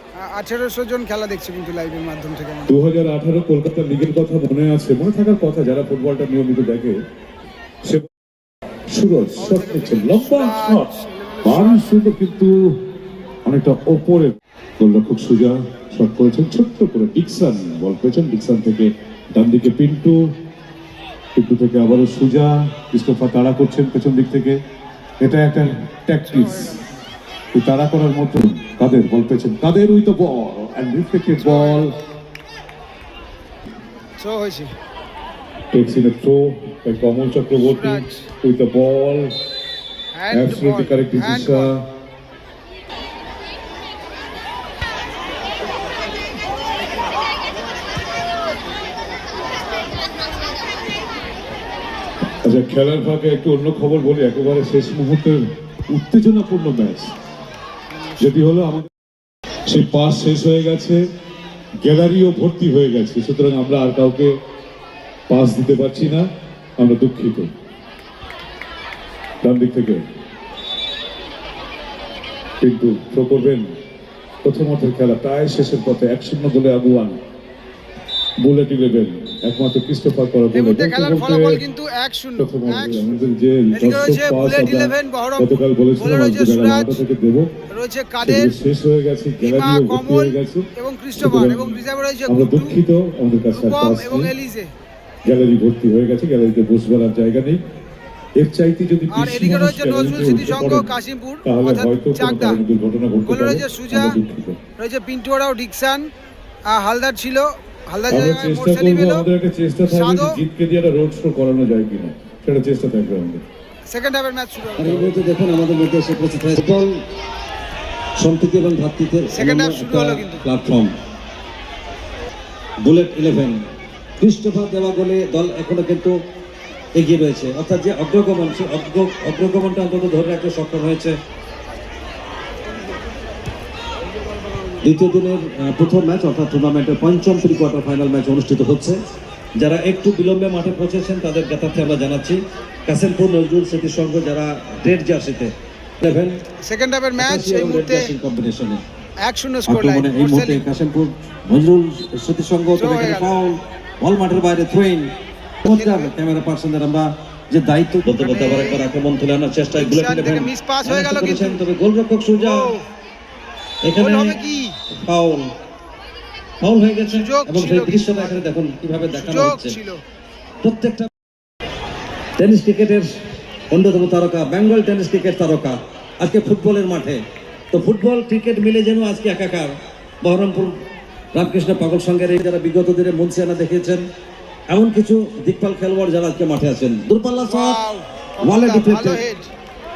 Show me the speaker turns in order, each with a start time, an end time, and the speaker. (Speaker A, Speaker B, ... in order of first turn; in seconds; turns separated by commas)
Speaker A: 0.1-2.7, Speaker B: 2.7-7.0, Speaker B: 8.9-10.9, Speaker A: 9.4-11.9, Speaker B: 11.4-12.7, Speaker B: 13.4-20.3, Speaker B: 21.4-24.6, Speaker B: 25.2-26.8, Speaker A: 26.3-26.9, Speaker B: 27.5-32.0, Speaker A: 31.4-32.0, Speaker A: 34.2-34.7, Speaker B: 35.7-39.3, Speaker A: 37.6-38.2, Speaker A: 40.1-41.7, Speaker B: 40.3-41.8, Speaker B: 52.4-57.1, Speaker B: 58.2-58.9, Speaker B: 59.6-61.0, Speaker B: 61.8-64.3, Speaker B: 65.3-67.5, Speaker B: 69.4-70.0, Speaker B: 72.6-73.7, Speaker B: 74.4-77.2, Speaker B: 78.4-81.6, Speaker A: 80.5-83.2, Speaker B: 82.3-87.5, Speaker A: 83.7-87.0, Speaker A: 87.7-88.5, Speaker B: 88.2-91.7, Speaker A: 89.4-92.8, Speaker B: 92.3-94.3, Speaker A: 93.6-94.7, Speaker B: 95.2-97.6, Speaker B: 98.4-100.9, Speaker A: 99.1-102.6, Speaker B: 101.4-104.6, Speaker A: 103.2-104.2, Speaker A: 104.8-106.1, Speaker A: 106.6-109.2, Speaker B: 108.1-113.4, Speaker A: 109.9-110.4, Speaker A: 113.8-115.1, Speaker C: 114.8-116.9, Speaker C: 118.2-120.9, Speaker A: 119.3-120.5, Speaker C: 122.8-123.6, Speaker C: 124.2-126.1, Speaker C: 126.9-131.2, Speaker C: 134.8-139.0, Speaker C: 139.6-146.4, Speaker A: 146.6-148.1, Speaker C: 147.2-148.8, Speaker A: 149.2-150.6, Speaker C: 149.7-155.1, Speaker A: 152.7-153.3, Speaker C: 155.6-162.7, Speaker A: 155.7-156.1, Speaker A: 158.1-158.8, Speaker A: 159.7-161.6, Speaker A: 162.3-162.8, Speaker C: 163.8-164.4, Speaker A: 163.9-164.8, Speaker C: 165.0-165.5, Speaker C: 166.6-169.8, Speaker A: 167.1-168.4, Speaker A: 169.2-170.0, Speaker C: 170.6-171.1, Speaker C: 172.4-173.1, Speaker C: 173.7-177.2, Speaker C: 177.7-180.7, Speaker C: 181.3-184.0, Speaker C: 184.7-187.8, Speaker A: 187.4-189.5, Speaker C: 188.4-189.2